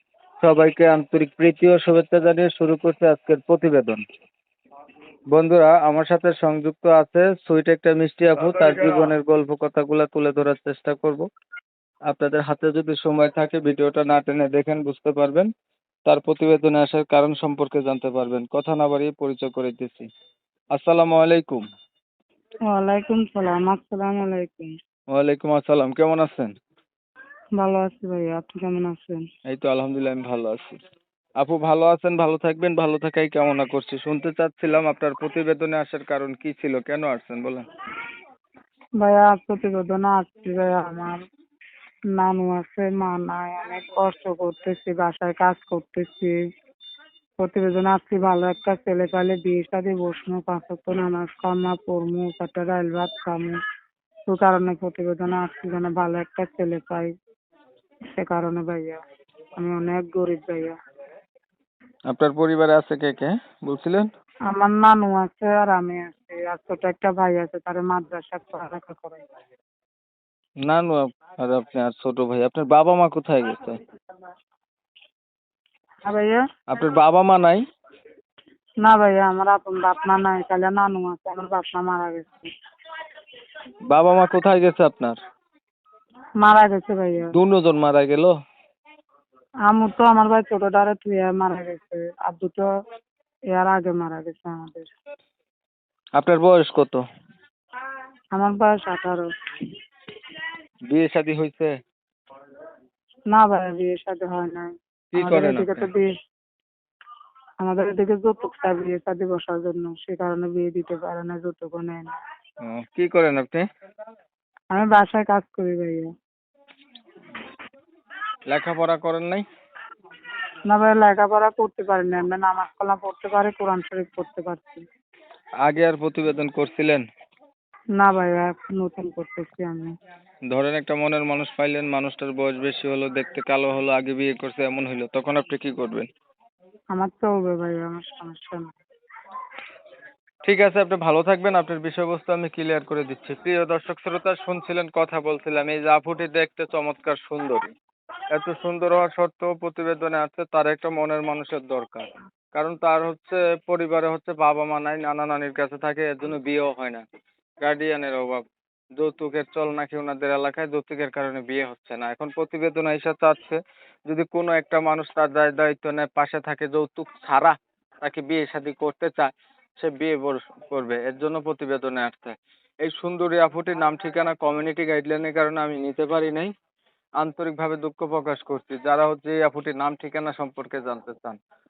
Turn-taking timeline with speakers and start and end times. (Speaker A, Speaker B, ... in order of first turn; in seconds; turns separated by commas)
Speaker A: 0.4-4.0, Speaker A: 5.3-11.3, Speaker A: 12.1-15.5, Speaker A: 16.1-20.1, Speaker A: 20.7-21.6, Speaker B: 22.7-24.7, Speaker A: 25.1-26.5, Speaker B: 27.6-29.2, Speaker A: 29.5-30.8, Speaker A: 31.4-37.7, Speaker B: 39.0-41.2, Speaker B: 42.2-46.4, Speaker B: 47.4-53.6, Speaker B: 54.3-57.1, Speaker B: 58.1-59.0, Speaker B: 59.6-60.8, Speaker A: 62.1-64.1, Speaker B: 64.5-69.2, Speaker A: 70.6-73.8, Speaker B: 76.0-76.4, Speaker A: 76.7-77.6, Speaker B: 78.8-82.5, Speaker A: 83.9-85.2, Speaker B: 86.4-87.3, Speaker A: 87.3-88.3, Speaker B: 89.7-92.7, Speaker B: 93.5-94.9, Speaker A: 96.2-97.0, Speaker B: 98.4-99.7, Speaker A: 100.9-101.8, Speaker B: 103.3-106.1, Speaker A: 105.1-105.9, Speaker B: 107.6-112.1, Speaker A: 112.6-113.7, Speaker B: 114.7-116.1, Speaker A: 118.5-119.5, Speaker B: 120.7-124.9, Speaker A: 125.6-127.0, Speaker B: 128.0-129.9, Speaker A: 130.5-136.1, Speaker B: 136.9-138.7, Speaker A: 140.4-147.7, Speaker A: 148.3-157.0, Speaker A: 157.6-158.4, Speaker A: 159.0-176.5, Speaker A: 177.2-181.4